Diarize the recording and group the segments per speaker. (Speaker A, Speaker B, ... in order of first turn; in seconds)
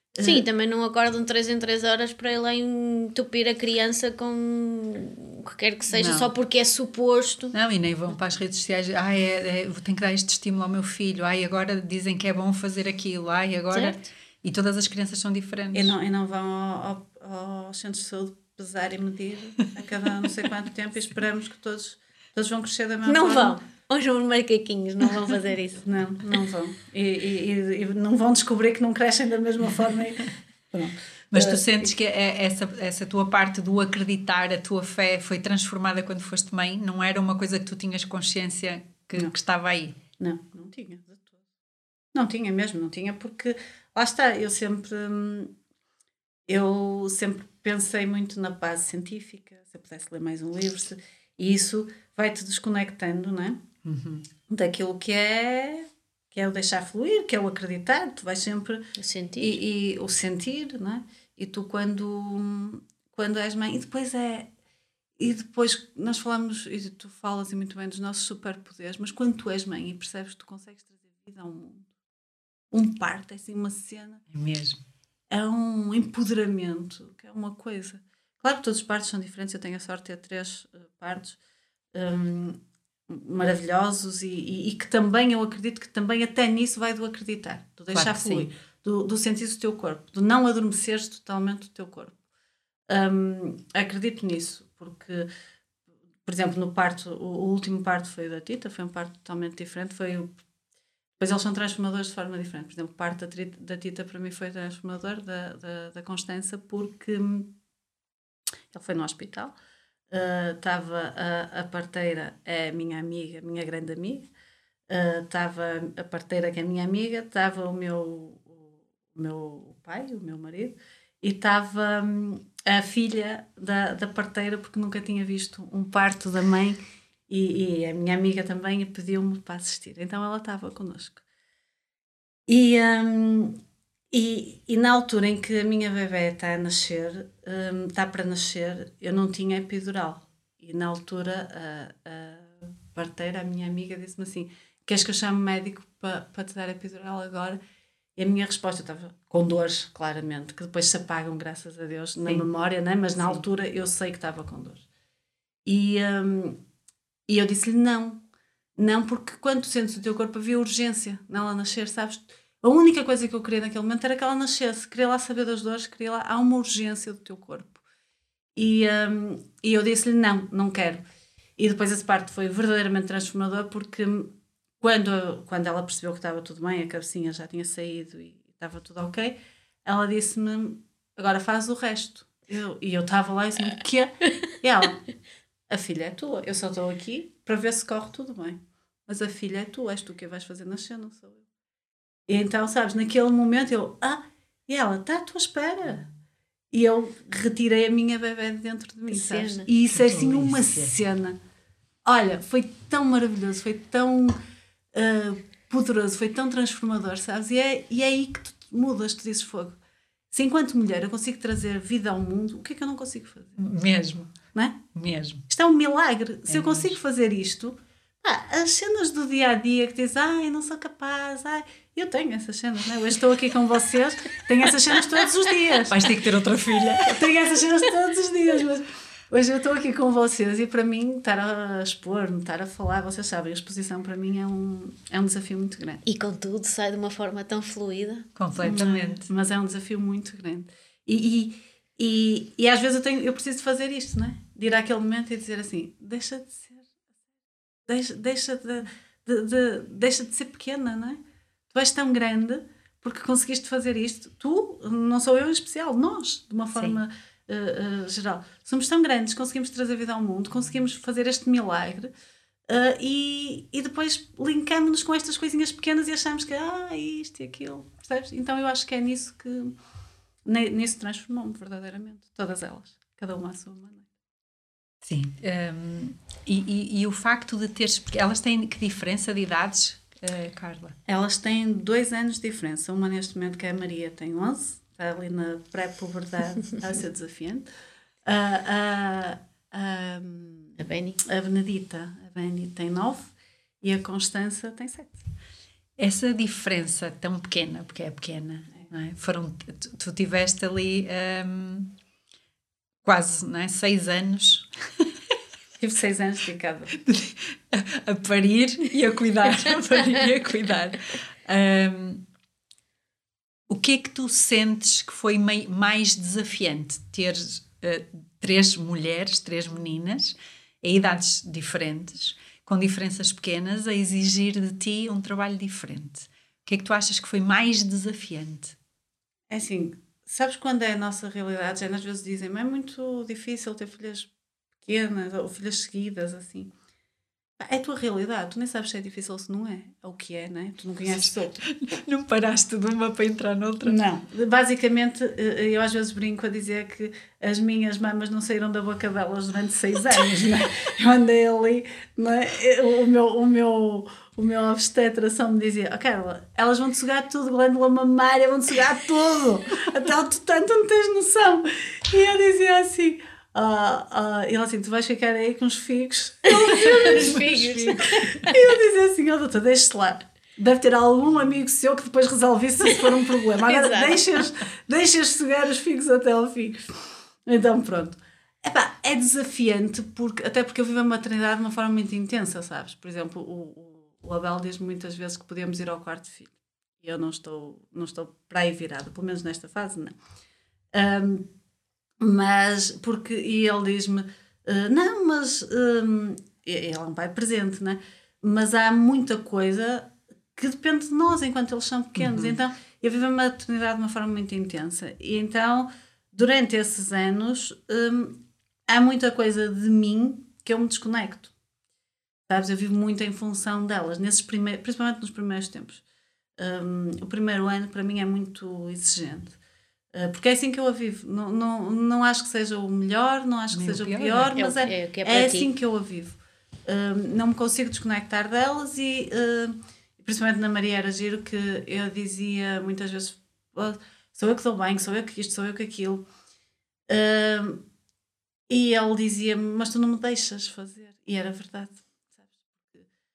Speaker A: 0.1-0.5, 15.7-23.6, 25.8-31.8, 40.2-41.4, 42.1-45.5, 46.5-53.6, 54.5-58.9, 59.4-64.5, 65.2-71.9, 72.7-74.2, 75.3-81.4, 81.9-92.2, 92.9-95.3, 96.2-100.3, 101.2-107.5, 108.7-109.5, 110.1-114.3, 114.9-131.2, 132.5-133.6, 134.1-147.6, 148.2-154.8, 155.7-156.6, 157.3-158.2, 158.8-167.8, 168.6-171.0, 171.6-185.0, 185.7-191.4, 192.3-196.1, 196.7-201.4, 202.1-204.4, 204.9-209.8, 210.3-213.6, 214.6-214.8, 215.5-226.1, 227.0-236.0, 238.6-246.8, 247.9-262.1, 262.7-269.8, 270.5-274.1, 281.1-287.7, 288.2-295.2, 305.8-307.0, 329.5-334.3, 334.9-336.7, 337.6-341.6, 343.9-367.5, 368.4-390.1, 390.9-391.5, 392.2-411.5, 412.5-416.0, 416.6-419.6, 420.1-436.2, 437.1-437.8, 438.7-442.0
Speaker B: 0.2-7.6, 13.7-14.1, 23.1-25.8, 59.0-59.6, 153.2-153.4, 199.1-199.7, 236.1-238.3, 290.8-291.2, 366.5-368.5, 373.6-374.2, 424.5-425.7
Speaker C: 5.9-6.3, 7.5-15.9, 31.3-40.0, 53.8-54.2, 74.3-74.8, 87.9-88.5, 199.9-200.9, 213.6-214.4, 214.9-215.4, 216.5-216.9, 225.9-227.2, 238.4-239.3, 256.8-257.0, 275.0-281.0, 296.0-301.9, 303.0-305.1, 307.0-312.2, 313.7-328.8, 341.2-344.0, 367.0-368.5, 402.2-402.6, 423.7-424.6